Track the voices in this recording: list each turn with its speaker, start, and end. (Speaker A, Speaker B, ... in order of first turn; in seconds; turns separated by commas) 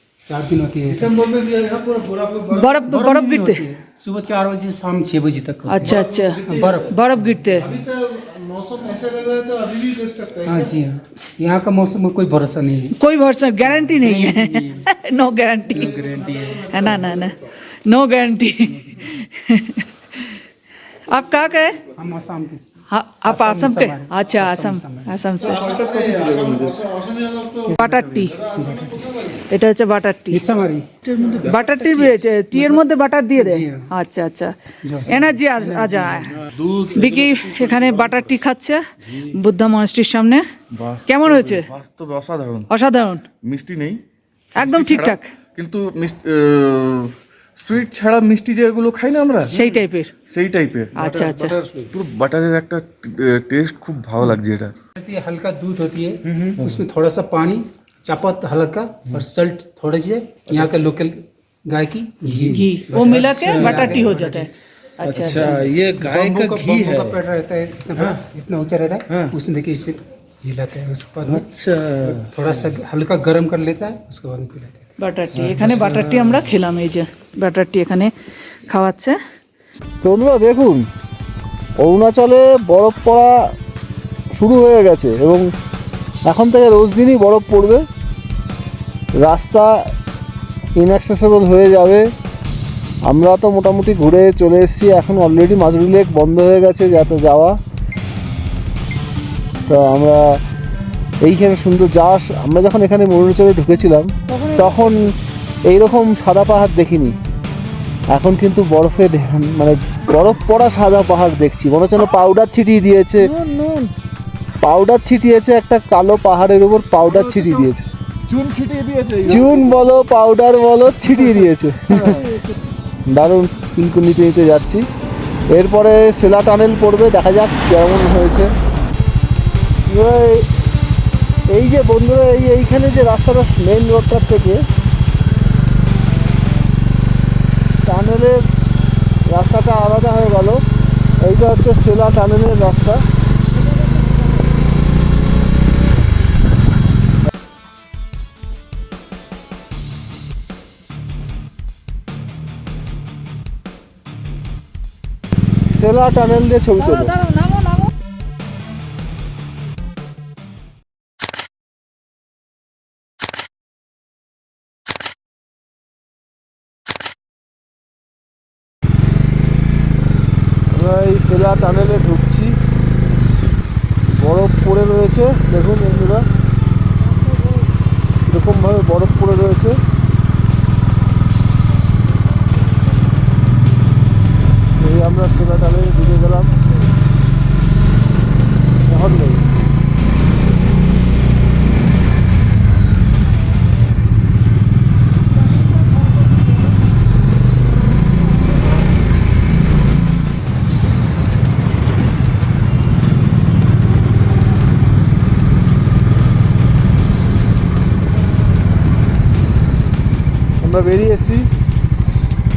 Speaker A: 0.3-1.2, Speaker B: 0.9-2.6, Speaker C: 2.5-3.6, Speaker A: 2.8-7.8, Speaker C: 5.7-7.7, Speaker B: 5.9-6.8, Speaker B: 7.7-10.7, Speaker A: 10.4-12.9, Speaker C: 13.0-16.0, Speaker A: 13.8-14.8, Speaker A: 15.7-17.3, Speaker C: 16.7-20.4, Speaker C: 21.1-21.8, Speaker A: 21.9-22.7, Speaker C: 22.9-25.7, Speaker A: 23.2-25.1, Speaker B: 25.4-27.8, Speaker D: 25.6-26.8, Speaker C: 27.8-28.4, Speaker B: 28.3-29.1, Speaker A: 28.5-29.0, Speaker C: 29.5-30.4, Speaker A: 30.3-33.9, Speaker C: 31.4-34.5, Speaker A: 34.9-36.4, Speaker C: 35.1-36.4, Speaker D: 36.5-37.9, Speaker C: 36.9-40.4, Speaker D: 40.7-42.7, Speaker C: 41.1-41.7, Speaker C: 42.7-43.3, Speaker D: 43.4-44.0, Speaker D: 44.6-49.6, Speaker C: 44.6-45.4, Speaker C: 49.5-50.1, Speaker D: 50.3-51.0, Speaker C: 51.0-51.6, Speaker B: 51.1-51.7, Speaker A: 51.2-51.8, Speaker D: 51.9-54.7, Speaker A: 55.0-64.5, Speaker B: 56.3-56.8, Speaker D: 60.5-60.8, Speaker C: 62.5-64.5, Speaker C: 65.0-65.5, Speaker A: 65.0-74.9, Speaker B: 65.1-67.2, Speaker B: 69.1-69.3, Speaker B: 71.2-72.5, Speaker C: 75.0-78.1, Speaker A: 75.5-75.9, Speaker B: 75.5-75.9, Speaker C: 78.7-79.2, Speaker B: 80.0-80.8, Speaker B: 81.8-83.4, Speaker B: 84.3-85.5, Speaker B: 86.3-87.8, Speaker B: 89.2-89.7, Speaker B: 90.8-92.1, Speaker B: 93.1-97.6, Speaker B: 99.7-100.4, Speaker B: 101.2-105.1, Speaker C: 104.3-105.1, Speaker B: 105.7-107.2, Speaker B: 108.1-113.3, Speaker C: 113.2-113.9, Speaker B: 114.6-117.8, Speaker D: 117.2-117.4, Speaker D: 118.3-119.6, Speaker B: 119.2-122.2, Speaker C: 119.3-119.9, Speaker C: 122.1-122.5, Speaker B: 123.1-124.8, Speaker B: 125.5-128.5, Speaker B: 129.9-130.5, Speaker B: 131.5-134.6, Speaker B: 137.8-138.4, Speaker B: 139.3-140.6, Speaker B: 141.2-143.0, Speaker B: 155.7-157.1, Speaker C: 156.8-157.9, Speaker B: 170.7-172.6, Speaker B: 174.1-176.2, Speaker B: 178.3-179.8, Speaker B: 184.8-186.6, Speaker B: 188.9-189.5, Speaker B: 210.6-211.5